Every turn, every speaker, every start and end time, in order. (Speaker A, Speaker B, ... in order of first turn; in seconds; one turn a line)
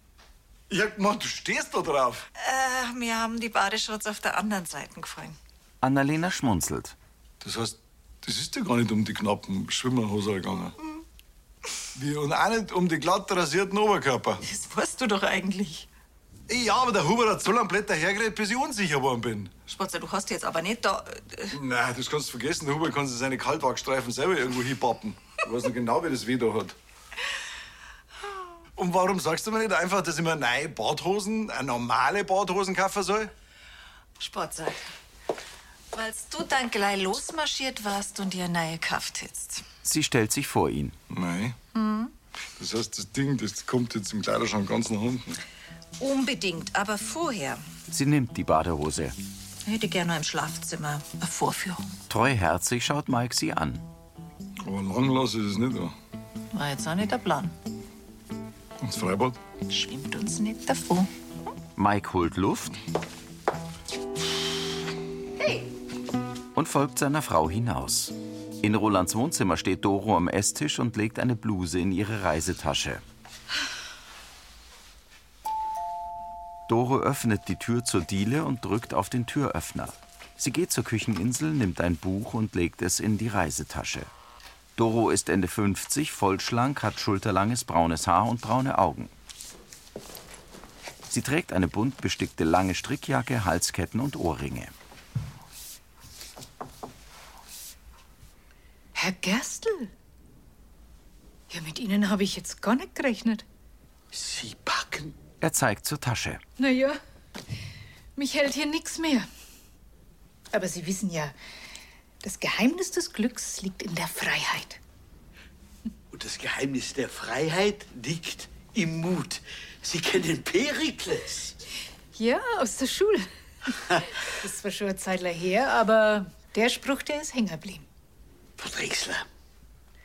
Speaker A: 0.7-2.2
Speaker B: 2.4-5.4
Speaker C: 5.8-7.0
Speaker A: 7.4-10.7
Speaker A: 11.9-14.4
Speaker B: 14.4-15.9
Speaker A: 16.5-19.5
Speaker B: 19.7-21.6
Speaker A: 21.5-26.8
Speaker A: 28.8-33.3
Speaker B: 34.2-34.9
Speaker B: 35.9-39.6
Speaker C: 39.8-41.0
Speaker A: 41.1-41.5
Speaker B: 41.7-42.1
Speaker A: 42.6-45.4
Speaker B: 46.0-47.6
Speaker C: 47.9-49.1
Speaker B: 49.6-51.9
Speaker C: 52.1-53.8
Speaker A: 54.6-55.9
Speaker B: 56.5-57.5
Speaker A: 58.8-59.4
Speaker B: 59.7-61.1
Speaker C: 61.8-62.8
Speaker C: 66.5-73.0
Speaker C: 76.7-84.1
Speaker C: 84.8-89.1
Speaker C: 91.1-94.7
Speaker D: 99.0-99.9
Speaker D: 101.5-103.4
Speaker E: 104.1-105.2
Speaker C: 105.4-106.4
Speaker D: 106.6-107.0
Speaker D: 108.2-109.3
Speaker D: 110.5-111.3
Speaker D: 112.2-114.8
Speaker E: 116.1-121.6
Speaker D: 122.1-123.3
Speaker D: 124.4-127.8
Speaker E: 128.6-129.2